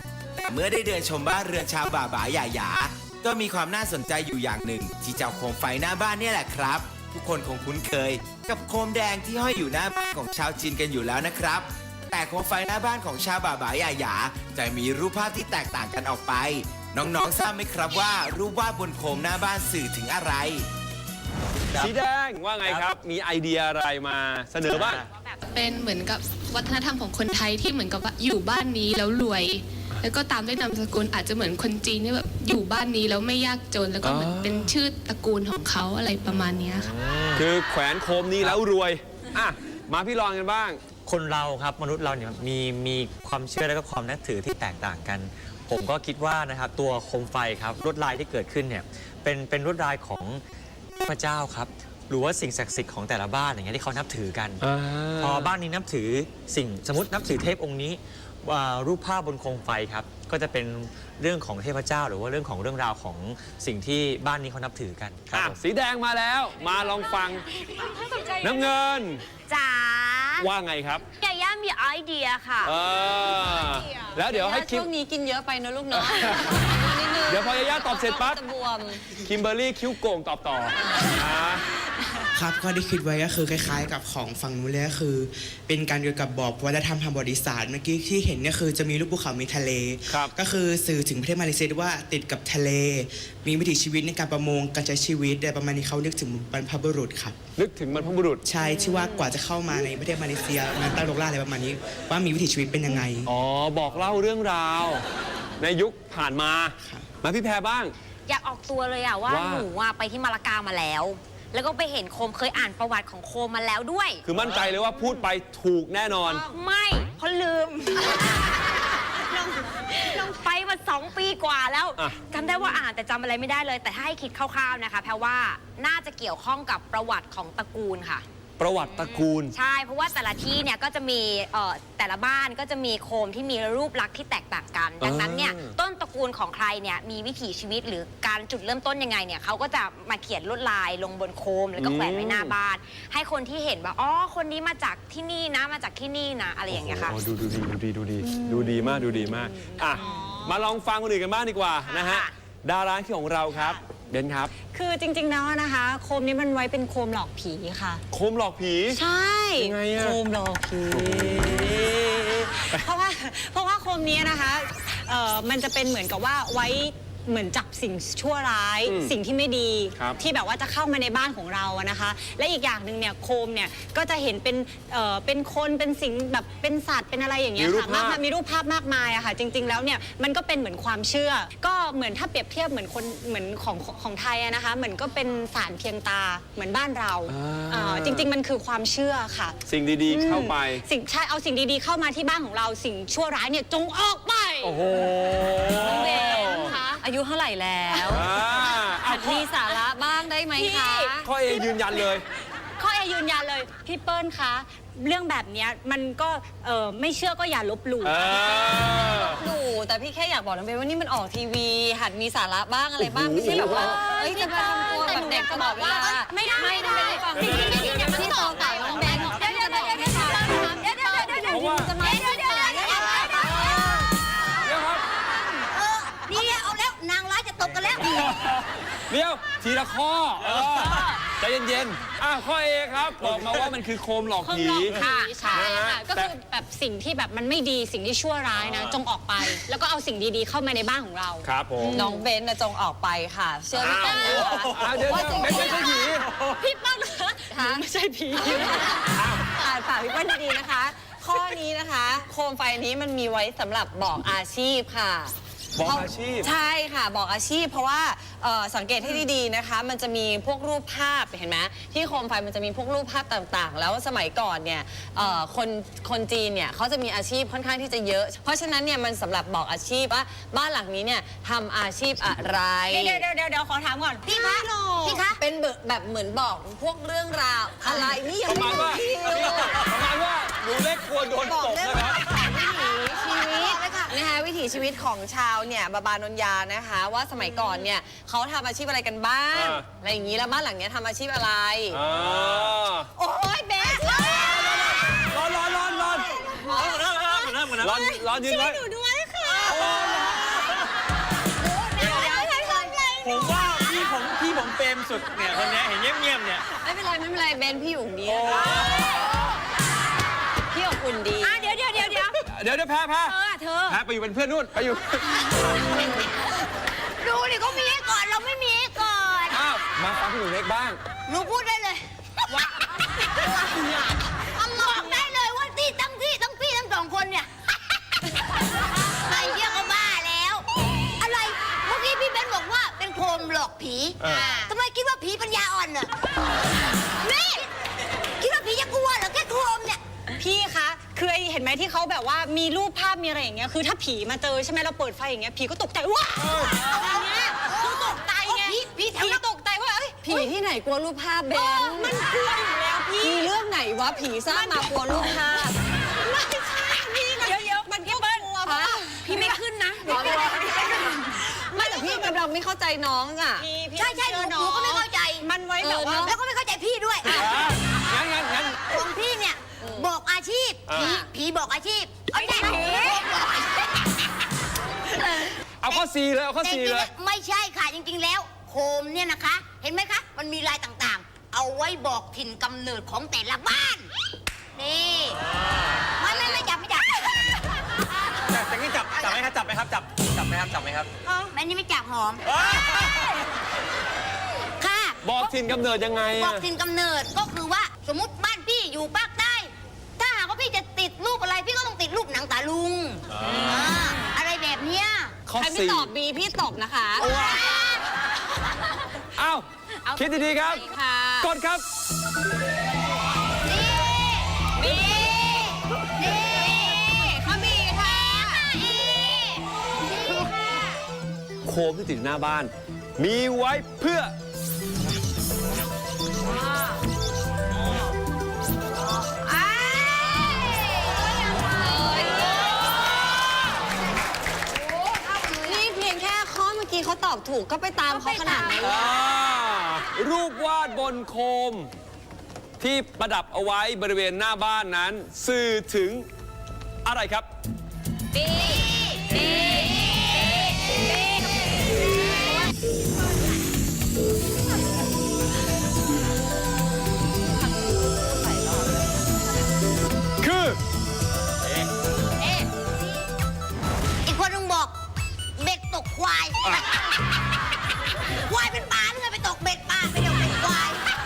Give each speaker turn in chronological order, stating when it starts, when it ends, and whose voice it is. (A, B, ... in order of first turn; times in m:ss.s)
0:00.4-0:20.6 A
0:21.7-0:25.0 B
0:24.8-0:25.0 C
0:24.9-0:25.4 D
0:25.4-0:36.9 E
0:34.0-0:34.7 B
0:36.3-0:37.4 C
0:37.3-0:40.8 B
0:41.0-0:50.4 C
0:51.0-0:54.6 C
0:54.6-0:55.5 B
0:55.2-1:05.6 C
1:05.3-1:07.5 B
1:08.4-1:09.2 B
1:09.5-1:10.5 D
1:10.4-1:11.0 B
1:11.2-1:12.7 D
1:12.6-1:14.9 B
1:14.3-1:19.1 F
1:15.9-1:18.4 B
1:19.2-1:21.6 B
1:20.7-1:21.2 F
1:22.3-1:37.4 G
1:37.6-1:38.4 B
1:38.4-1:43.3 G
1:43.2-1:45.0 B
1:45.6-1:47.9 B
1:48.3-1:54.2 D
1:49.3-1:49.7 B
1:54.2-1:56.4 B
1:56.2-1:58.6 D
1:59.3-2:08.2 D
2:08.6-2:09.5 B
2:08.8-2:27.2 D
2:15.0-2:15.7 B
2:21.8-2:22.5 B
2:26.7-2:34.5 B
2:28.3-2:30.7 H
2:32.0-2:32.3 D
2:33.5-2:33.8 H
2:34.7-2:38.0 H
2:38.1-2:39.0 B
2:38.9-3:14.8 H
2:39.6-2:40.2 B
2:40.9-2:42.8 B
2:48.8-2:49.1 B
2:57.6-2:58.2 B
3:07.3-3:08.3 B
3:09.6-3:10.8 B
3:14.6-3:16.8 B
3:15.8-3:18.3 F
3:15.8-3:17.0 H
3:17.9-3:19.5 B
3:19.0-3:21.3 F
3:20.6-3:21.2 H
3:21.2-3:22.2 B
3:22.8-3:28.9 H
3:28.0-3:29.4 B
3:29.2-3:43.1 F
3:33.0-3:34.2 B
3:33.6-3:41.5 H
3:37.2-3:38.2 B
3:38.1-3:38.5 I
3:39.0-3:39.4 I
3:39.9-3:40.3 I
3:41.5-3:42.0 B
3:41.9-3:43.7 I
3:43.4-3:43.8 B
3:44.5-3:45.0 B
3:45.7-3:48.3 I
3:48.2-3:56.3 B
3:54.4-4:01.4 H
3:54.9-3:55.5 D
4:01.4-4:02.1 B
4:01.9-4:06.0 F
4:03.8-4:06.3 B
4:05.4-4:09.1 H
4:07.5-4:33.3 F
4:09.1-4:09.4 B
4:15.8-4:16.5 B
4:32.9-4:34.2 H
4:34.2-4:35.4 I
4:35.3-4:39.8 F
4:38.4-4:42.2 B
4:41.6-4:44.1 I
4:42.3-4:52.0 F
4:49.5-4:49.8 B
4:51.9-4:53.1 B
4:53.2-4:54.7 F
4:53.3-4:54.9 I
4:55.3-4:56.6 B
4:56.8-4:57.3 F
4:56.9-4:59.8 H
4:57.7-4:58.8 B
4:59.7-5:00.5 B
4:59.7-5:00.0 I
5:01.8-5:02.9 F
5:01.9-5:04.1 I
5:05.4-5:05.9 I
5:06.7-5:09.0 F
5:08.3-5:09.1 B
5:08.8-5:09.1 I
5:10.7-5:11.8 F
5:11.4-5:12.3 I
5:12.4-5:15.4 B
5:13.4-5:13.8 D
5:17.2-5:19.6 I
5:19.5-5:21.0 B
5:21.3-5:22.7 I
5:23.3-5:27.9 I
5:29.0-5:30.6 I
5:31.2-5:36.1 I
5:37.2-5:37.6 I
5:38.4-5:40.0 I
5:40.4-5:50.5 H
5:46.4-5:46.7 B
5:46.7-5:49.4 I
5:50.2-5:52.2 F
5:51.5-5:53.5 H
5:53.2-5:55.8 F
5:54.4-5:55.6 H
5:56.1-6:00.7 H
5:58.6-6:03.6 F
5:59.0-5:59.4 I
6:00.1-6:01.1 I
6:03.6-6:06.3 H
6:04.0-6:05.4 I
6:05.8-6:06.4 F
6:06.1-6:07.4 I
6:07.3-6:08.8 B
6:08.7-6:13.9 I
6:09.8-6:10.1 F
6:10.8-6:11.2 B
6:11.0-6:11.3 F
6:15.2-6:16.0 I
6:15.8-6:17.1 B
6:16.6-6:24.1 I
6:24.8-6:25.4 I
6:26.2-6:27.3 I
6:26.3-6:26.6 F
6:28.6-6:31.0 C
6:31.2-6:33.0 I
6:34.8-6:35.4 I
6:35.2-6:36.6 B
6:36.3-6:45.3 I
6:43.4-6:43.8 B
6:45.5-6:46.1 B
6:45.6-6:47.3 F
6:47.2-6:48.0 I
6:47.3-6:47.6 B
6:49.4-6:50.9 B
6:50.7-6:51.5 F
6:51.4-6:51.8 B
6:53.6-7:00.9 I
7:01.6-7:04.3 B
7:09.4-7:11.1 I
7:10.2-7:10.6 F
7:11.7-7:12.6 F
7:12.1-7:12.7 I
7:15.1-7:15.8 I
7:15.6-7:19.1 F
7:18.2-7:18.8 I
7:18.8-7:21.9 B
7:22.8-7:26.3 B
7:27.0-7:27.5 B
7:28.3-7:30.1 D
7:37.8-7:38.8 F
7:40.4-7:40.8 B
7:44.2-7:45.0 I
7:45.6-7:47.1 I
7:48.5-7:51.0 I